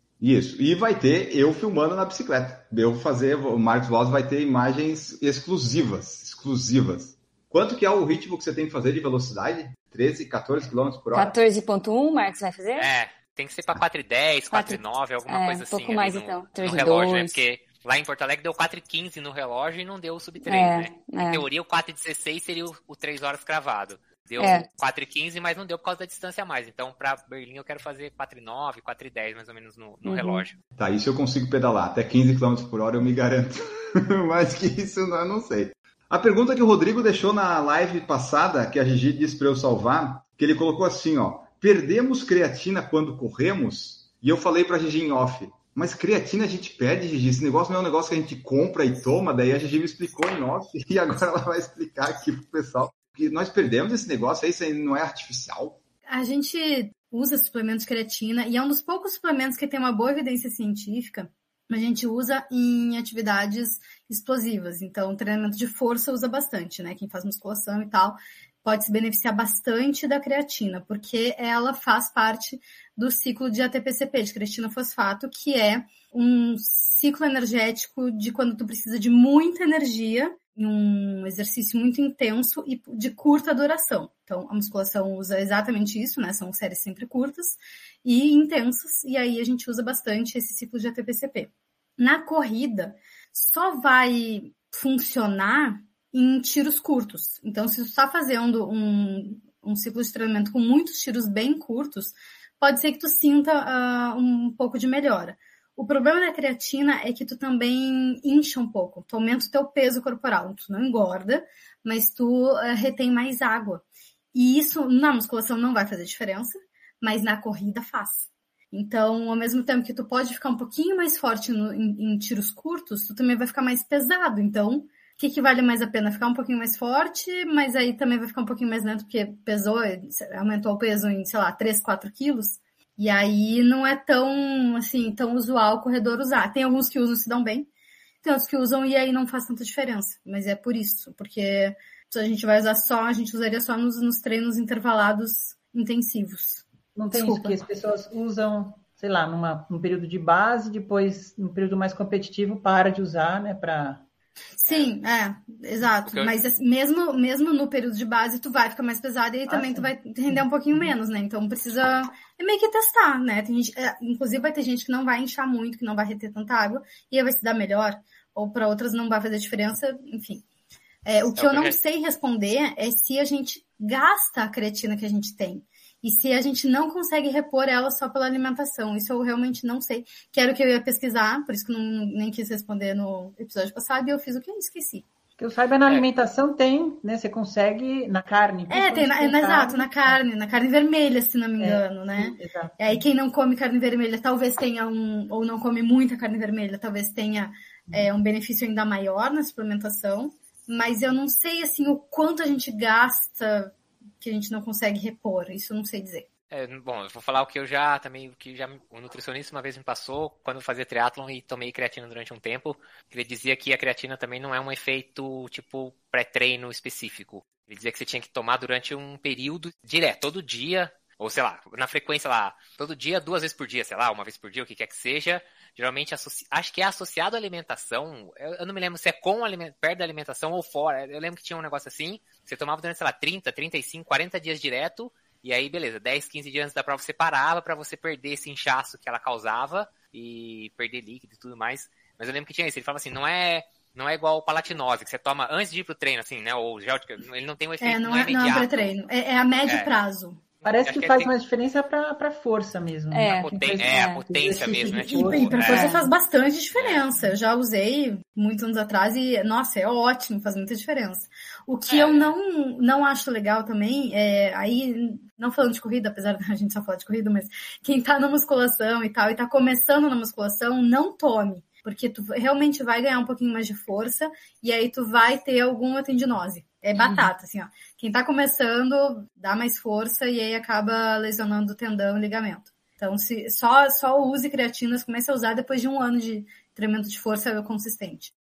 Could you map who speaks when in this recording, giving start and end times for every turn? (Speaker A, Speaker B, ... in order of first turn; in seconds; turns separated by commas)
Speaker A: 0.2-11.4, Speaker B: 11.1-12.9, Speaker C: 12.8-30.6, Speaker B: 14.5-17.4, Speaker B: 20.5-21.4, Speaker B: 24.4-24.7, Speaker B: 30.1-30.4, Speaker A: 30.8-55.8, Speaker D: 56.1-137.7, Speaker D: 138.2-147.6, Speaker E: 146.9-154.1, Speaker D: 154.6-170.4, Speaker C: 156.1-156.3, Speaker E: 159.5-161.0, Speaker D: 171.1-185.1, Speaker C: 171.4-171.8, Speaker E: 185.4-190.2, Speaker D: 188.7-206.3, Speaker E: 191.6-193.0, Speaker C: 206.5-248.9, Speaker D: 247.8-250.4, Speaker C: 249.7-249.9, Speaker C: 250.6-251.3, Speaker E: 250.7-255.8, Speaker B: 253.1-254.2, Speaker C: 253.3-255.9, Speaker D: 255.1-288.3, Speaker B: 255.6-256.1, Speaker C: 256.8-257.0, Speaker C: 261.9-262.3, Speaker E: 277.0-277.3